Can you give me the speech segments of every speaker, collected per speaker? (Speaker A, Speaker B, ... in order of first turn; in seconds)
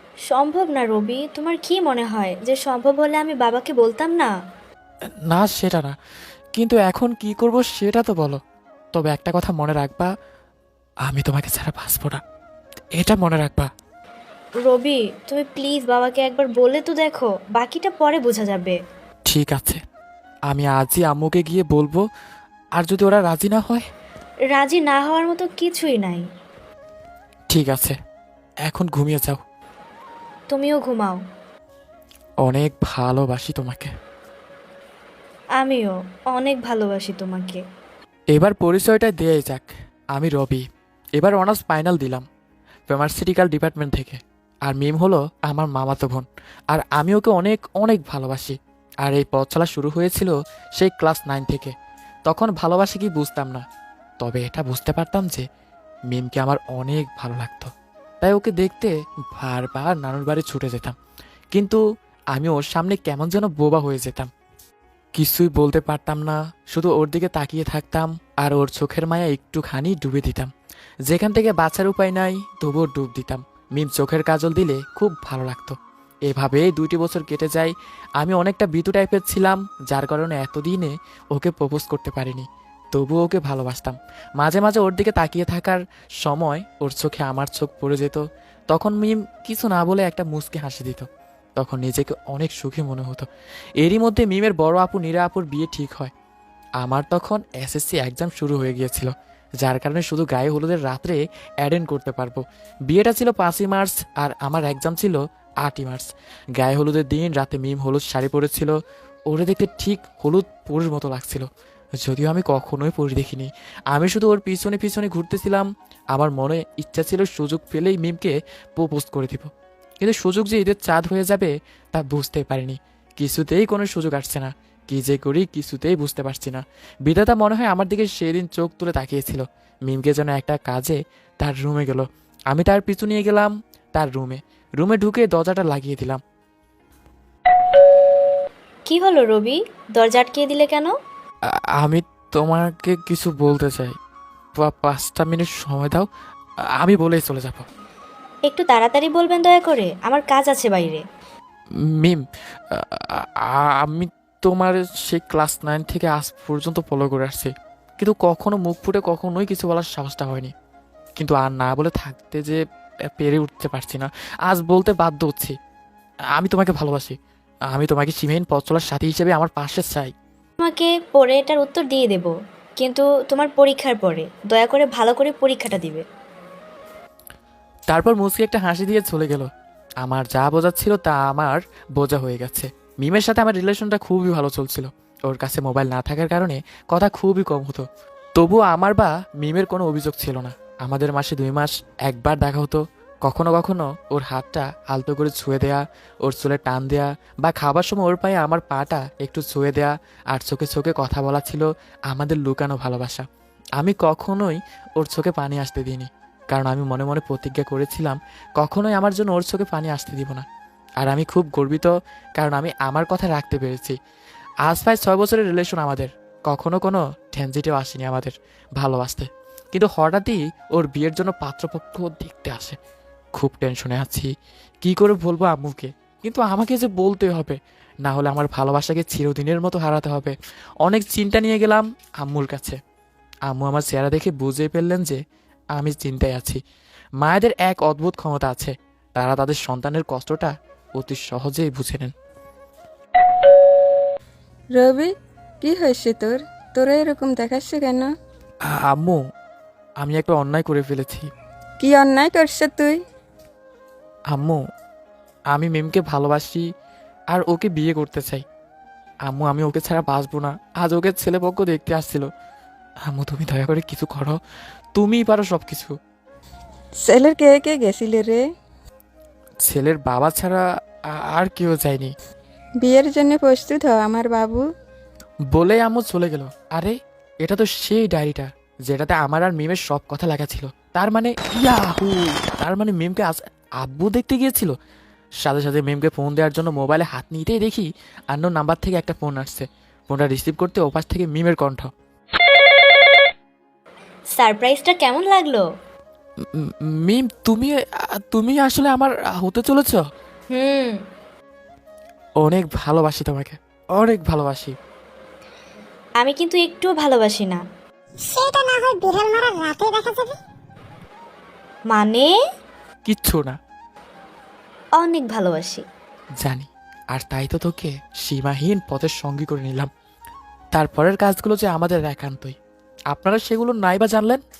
Speaker A: 0.3-4.3, 14.6-18.8, 24.5-26.2, 30.5-31.2, 35.6-37.6, 138.9-140.9, 148.5-151.0, 170.6-176.0, 294.4-295.6, 300.5-301.0, 306.2-307.6, 311.9-312.3, 315.0-315.8
Speaker B: 5.3-5.9, 6.5-8.4, 8.9-10.1, 11.0-12.2, 12.9-13.7, 19.3-19.8, 20.5-22.0, 22.8-23.8, 27.5-27.9, 28.6-29.4, 32.4-33.9, 38.3-40.6, 41.2-42.2, 42.9-51.7, 52.3-53.6, 54.2-55.4, 56.1-57.7, 58.2-60.9, 61.5-61.8, 62.3-64.3, 65.2-70.5, 71.1-75.8, 76.3-91.1, 91.6-93.3, 93.8-96.1, 96.8-108.8, 109.3-111.5, 112.0-119.5, 120.0-136.2, 141.8-143.9, 144.6-146.1, 146.8-147.6, 151.9-160.5, 161.2-165.5, 166.3-167.2, 167.7-170.1, 177.9-179.5, 180.0-187.8, 188.4-203.2, 203.8-210.4, 211.0-213.9, 214.6-222.8, 223.3-224.3, 224.8-232.8, 233.5-235.2, 235.8-236.6, 237.2-242.1, 248.7-249.2, 250.0-251.3, 254.3-254.6, 255.5-256.7, 257.3-258.4, 259.2-262.3, 263.1-264.4, 264.9-265.9, 269.6-270.6, 271.2-272.1, 275.5-284.7, 285.4-291.9, 296.5-300.0, 302.4-304.7, 313.1-313.6, 316.4-319.9, 320.7-322.6, 323.1-324.4
Speaker C: 244.8-248.1, 251.8-253.0, 267.0-268.4, 272.8-274.6
Speaker D: 308.2-310.4